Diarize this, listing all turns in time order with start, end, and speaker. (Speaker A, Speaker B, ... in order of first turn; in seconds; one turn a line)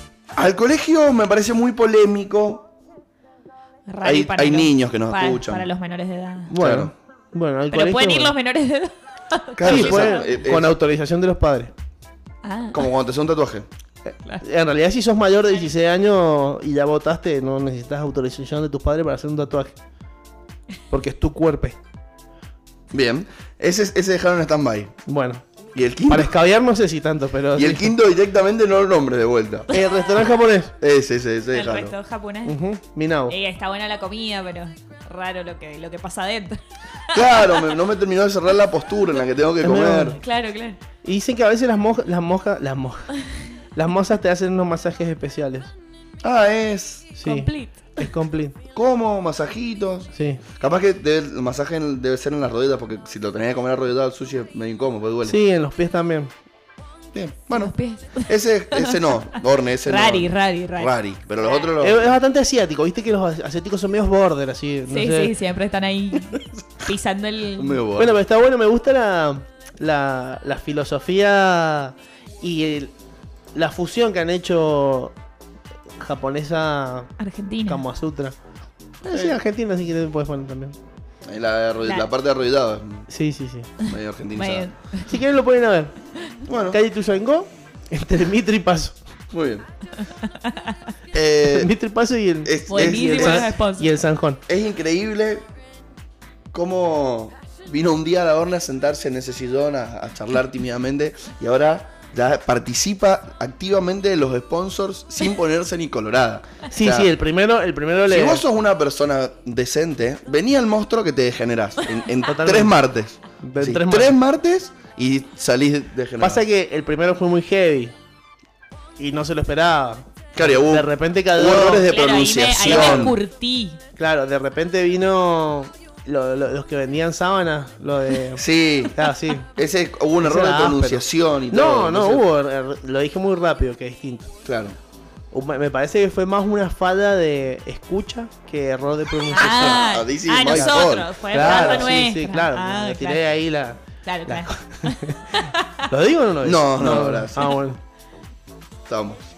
Speaker A: 0.3-2.7
Speaker B: 3.9-6.5
Speaker A: 4.0-5.7
Speaker C: 6.5-8.3
Speaker A: 6.6-6.9
Speaker B: 7.7-10.2
Speaker A: 9.6-10.7
Speaker C: 9.6-11.7
Speaker B: 12.4-12.9
Speaker A: 12.7-13.7
Speaker C: 14.4-19.7
Speaker C: 20.9-21.8
Speaker A: 22.9-24.9
Speaker C: 25.1-25.4
Speaker A: 25.7-26.3
Speaker C: 26.1-27.9
Speaker A: 27.5-29.7
Speaker C: 29.7-30.7
Speaker A: 30.8-31.9
Speaker B: 31.5-32.5
Speaker C: 32.5-33.3
Speaker B: 33.3-36.6
Speaker A: 37.1-40.2
Speaker B: 37.1-37.5
Speaker C: 39.6-40.2
Speaker B: 40.2-40.8
Speaker C: 41.0-43.2
Speaker C: 43.7-45.7
Speaker A: 46.2-47.1
Speaker C: 47.1-48.5
Speaker B: 47.2-48.1
Speaker A: 48.7-55.4
Speaker C: 50.1-50.4
Speaker C: 55.2-56.3
Speaker A: 57.1-62.1
Speaker B: 57.5-59.1
Speaker B: 59.8-60.9
Speaker C: 61.8-65.3
Speaker B: 64.9-67.8
Speaker A: 66.3-66.6
Speaker A: 67.5-68.2
Speaker C: 68.0-72.9
Speaker C: 73.5-75.1
Speaker C: 76.0-77.1
Speaker B: 77.2-77.8
Speaker C: 77.7-78.3
Speaker C: 79.0-80.8
Speaker A: 79.0-79.4
Speaker A: 81.2-83.1
Speaker C: 83.1-83.7
Speaker A: 83.8-84.7
Speaker B: 84.3-85.1
Speaker C: 85.1-85.9
Speaker A: 86.5-86.8
Speaker C: 86.7-89.0
Speaker A: 89.3-89.7
Speaker A: 91.1-91.7
Speaker C: 91.4-94.4
Speaker A: 92.4-93.5
Speaker B: 92.7-93.9
Speaker A: 94.5-95.5
Speaker A: 96.5-107.1
Speaker C: 106.7-108.4
Speaker A: 108.1-116.4
Speaker C: 112.3-112.8
Speaker C: 113.4-114.2
Speaker C: 116.2-117.9
Speaker C: 119.0-121.9
Speaker A: 120.3-123.2
Speaker B: 121.8-123.8
Speaker C: 122.6-123.1
Speaker C: 124.0-129.5
Speaker A: 128.3-129.0
Speaker A: 129.6-132.2
Speaker C: 130.2-134.3
Speaker A: 134.4-134.8
Speaker C: 135.3-139.8
Speaker B: 139.3-143.2
Speaker A: 139.4-141.9
Speaker C: 140.5-147.8
Speaker B: 144.0-145.8
Speaker A: 146.4-147.5
Speaker A: 148.9-149.2